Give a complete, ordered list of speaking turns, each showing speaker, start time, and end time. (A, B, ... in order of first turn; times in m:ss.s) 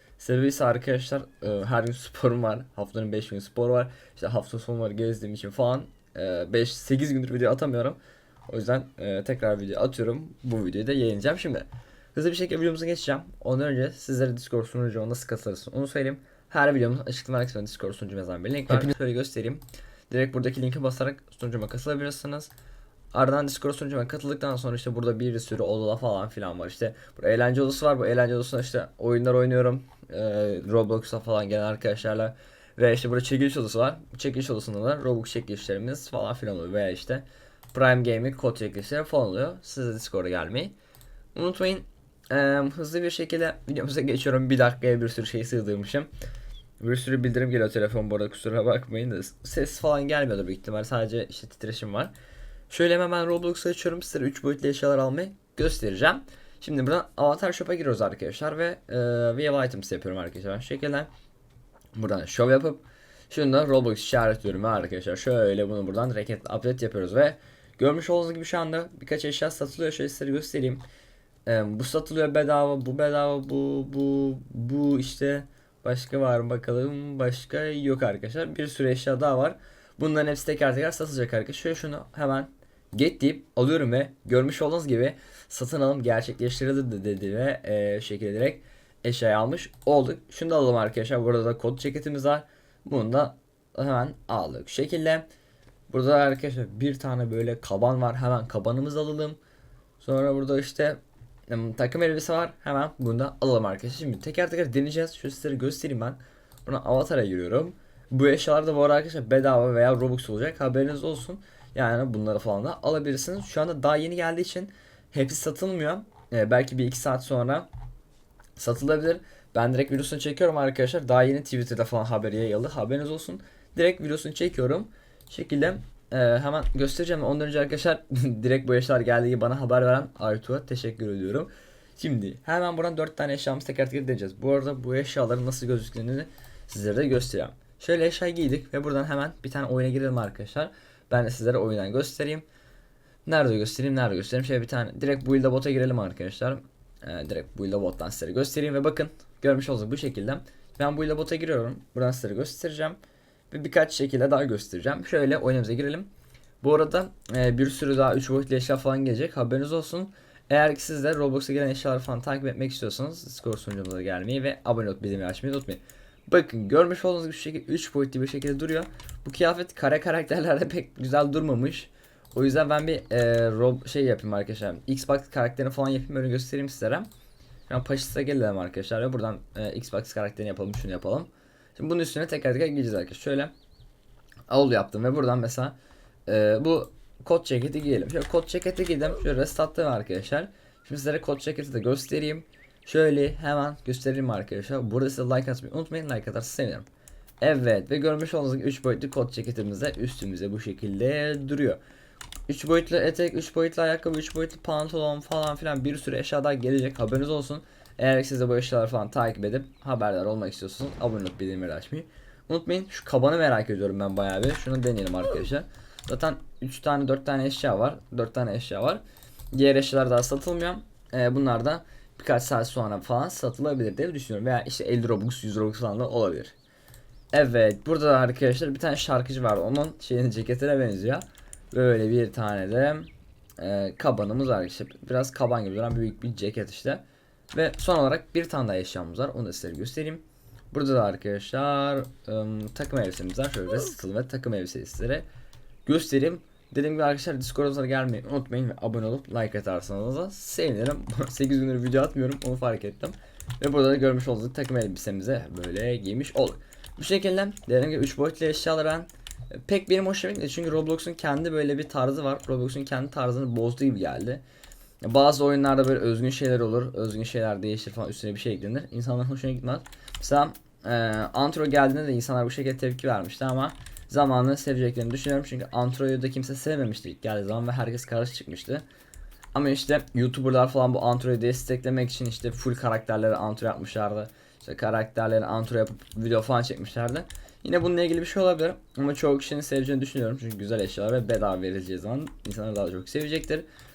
0:00.2-0:22.5 A
0:23.1-0:40.7 A
0:41.3-0:46.1 A
0:46.8-0:52.1 A
0:52.7-1:01.1 A
1:02.0-1:10.8 A
1:11.4-1:35.3 A
1:35.9-1:39.4 A
1:40.0-1:57.7 A
1:58.6-2:22.4 A
2:23.2-2:33.0 A
2:33.5-2:36.1 A
2:36.6-2:57.1 A
2:57.7-3:03.5 A
3:04.5-3:05.8 A
3:06.3-3:16.9 A
3:17.4-3:21.8 A
3:22.5-3:46.5 A
3:47.3-4:05.2 A
4:05.8-4:24.4 A
4:25.0-4:38.8 A
4:39.5-4:53.6 A